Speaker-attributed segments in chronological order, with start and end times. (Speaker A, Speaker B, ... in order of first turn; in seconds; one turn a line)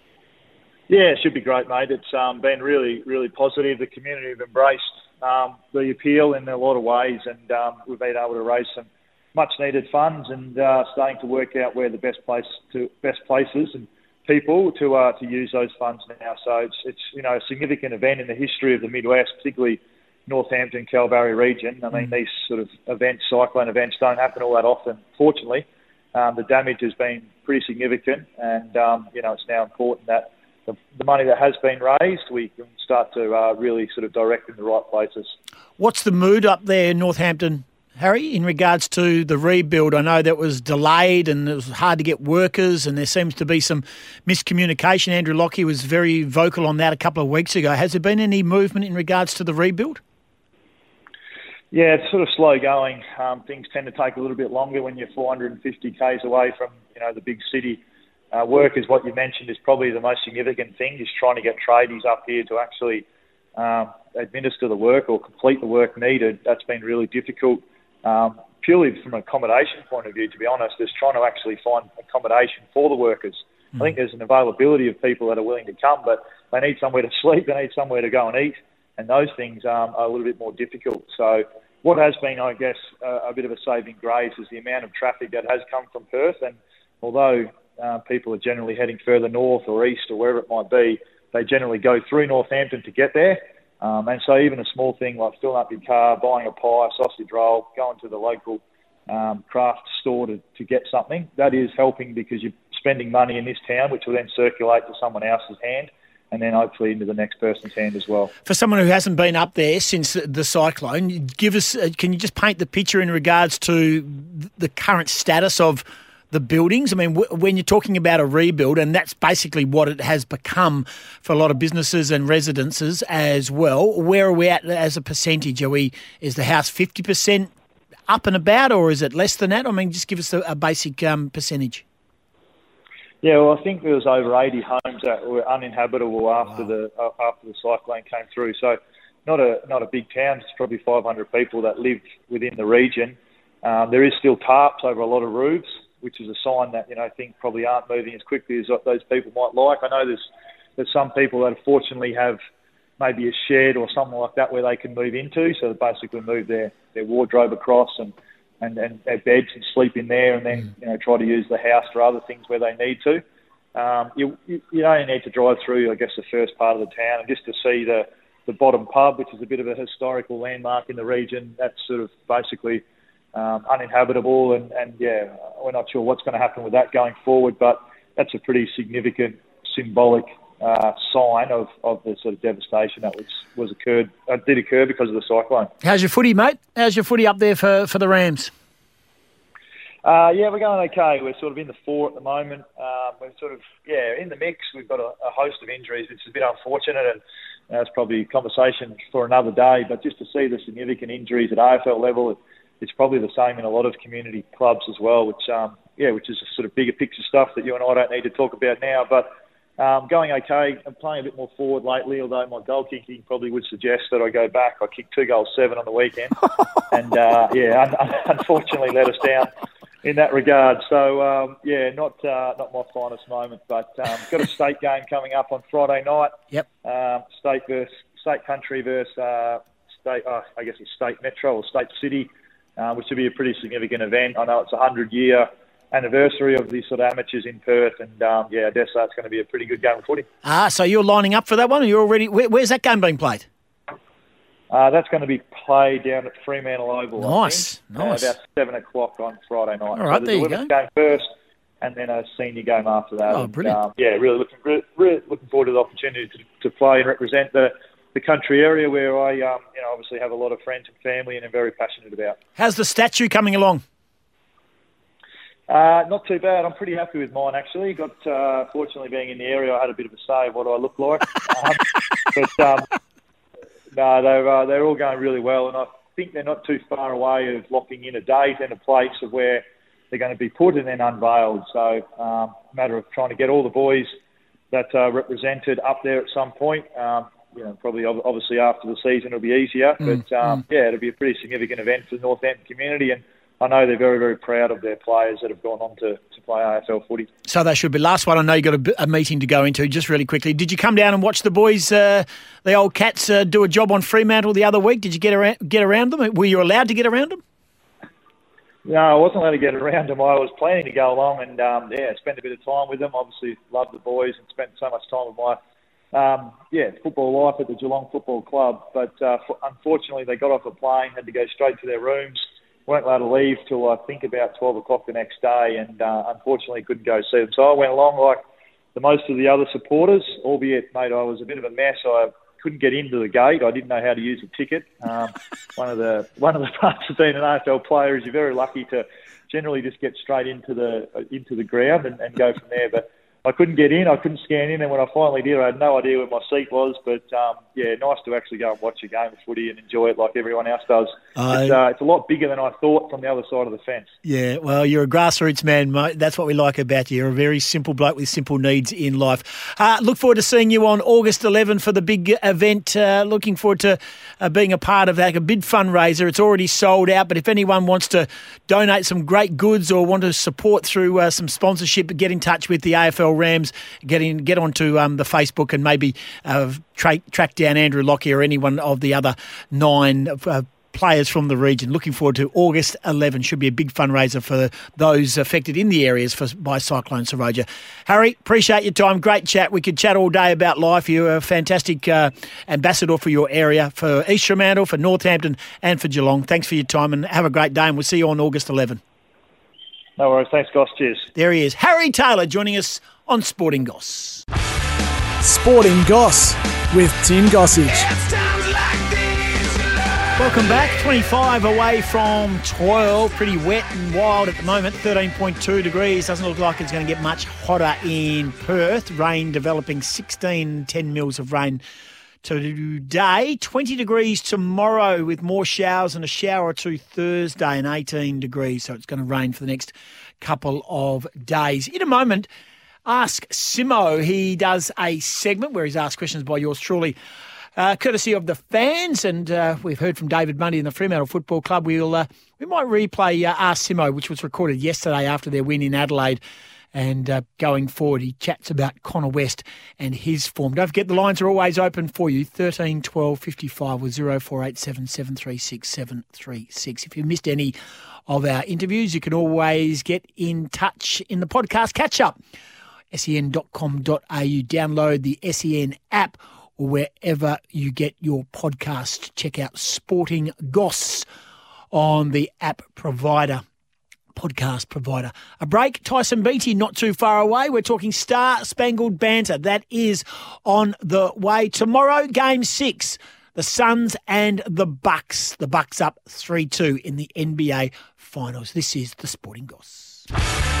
Speaker A: 0.9-35.3
Speaker B: 35.8-50.0
Speaker A: 51.7-57.8
Speaker A: 58.3-63.0
Speaker A: 63.5-108.3
Speaker B: 108.5-127.5
Speaker B: 128.1-131.8
Speaker A: 133.2-150.2
Speaker A: 150.8-152.4
Speaker A: 153.0-163.2
Speaker A: 163.7-172.8
Speaker A: 173.3-185.7
Speaker B: 185.8-188.5
Speaker A: 190.0-216.3
Speaker A: 216.9-219.5
Speaker A: 220.0-240.2
Speaker B: 240.4-243.5
Speaker A: 244.7-251.3
Speaker B: 247.2-248.3
Speaker B: 249.9-250.7
Speaker A: 251.8-262.4
Speaker B: 253.3-253.8
Speaker B: 262.6-263.8
Speaker A: 265.7-271.8
Speaker A: 272.3-272.9
Speaker A: 273.9-284.1
Speaker A: 284.7-297.3
Speaker B: 297.5-307.4
Speaker A: 308.8-315.6
Speaker A: 316.1-328.4
Speaker A: 328.9-354.1
Speaker B: 351.4-351.8
Speaker B: 354.2-399.0
Speaker A: 400.2-401.3
Speaker B: 401.3-404.4
Speaker C: 405.4-408.1
Speaker B: 410.4-421.8
Speaker B: 422.4-432.5
Speaker B: 433.1-437.1
Speaker B: 437.8-446.4
Speaker B: 446.9-457.8
Speaker B: 458.3-462.4
Speaker B: 463.1-471.3
Speaker B: 471.9-473.6
Speaker B: 474.3-490.3